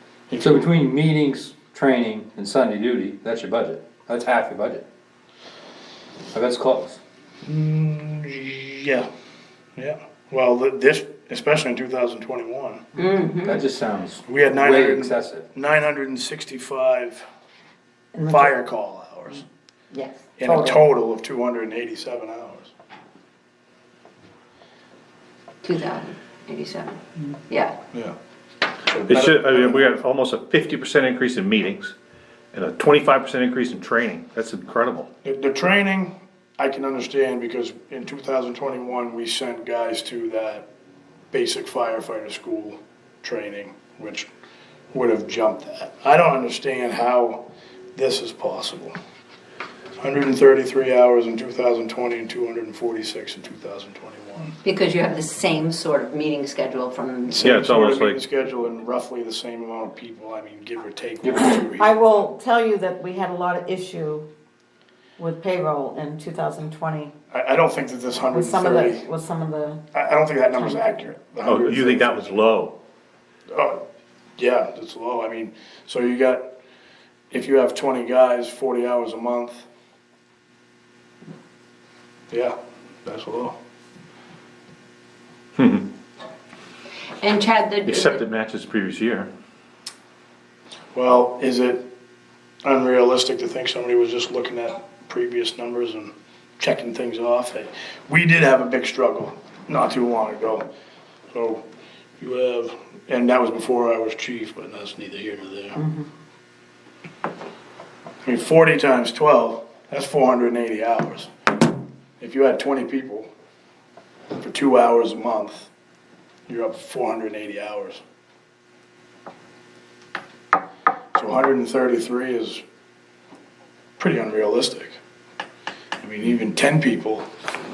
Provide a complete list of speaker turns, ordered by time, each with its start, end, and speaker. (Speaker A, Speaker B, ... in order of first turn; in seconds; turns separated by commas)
Speaker A: 0.3-0.7, Speaker B: 0.4-4.8, Speaker B: 6.3-7.0, Speaker A: 7.4-9.1, Speaker A: 9.8-12.8, Speaker C: 13.0-13.6, Speaker B: 13.4-15.4, Speaker A: 14.3-17.2, Speaker D: 18.1-18.6, Speaker A: 18.3-19.4, Speaker D: 19.9-20.8, Speaker A: 20.4-22.7, Speaker C: 25.6-27.7, Speaker A: 28.9-29.9, Speaker E: 29.1-31.9, Speaker E: 32.5-35.1, Speaker A: 35.2-40.6, Speaker A: 41.3-44.3, Speaker A: 44.9-48.9, Speaker A: 50.0-54.5, Speaker C: 54.6-57.5, Speaker A: 57.3-62.2, Speaker E: 57.4-58.2, Speaker B: 61.2-61.5, Speaker D: 61.6-64.2, Speaker D: 65.2-67.1, Speaker A: 67.3-69.1, Speaker D: 68.3-69.8, Speaker A: 69.9-72.4, Speaker E: 71.4-72.8, Speaker A: 73.5-73.8, Speaker A: 74.4-76.5, Speaker A: 77.3-79.6, Speaker A: 82.3-83.6, Speaker E: 85.6-85.9, Speaker C: 87.2-88.2, Speaker E: 87.8-89.3, Speaker A: 90.9-91.9, Speaker A: 92.6-100.7, Speaker A: 101.3-101.6, Speaker A: 102.2-105.8, Speaker D: 105.8-106.0, Speaker A: 108.2-111.3, Speaker A: 112.2-113.3, Speaker A: 114.3-115.7, Speaker A: 116.5-118.0, Speaker A: 121.1-122.6, Speaker A: 124.0-125.0, Speaker A: 126.0-127.3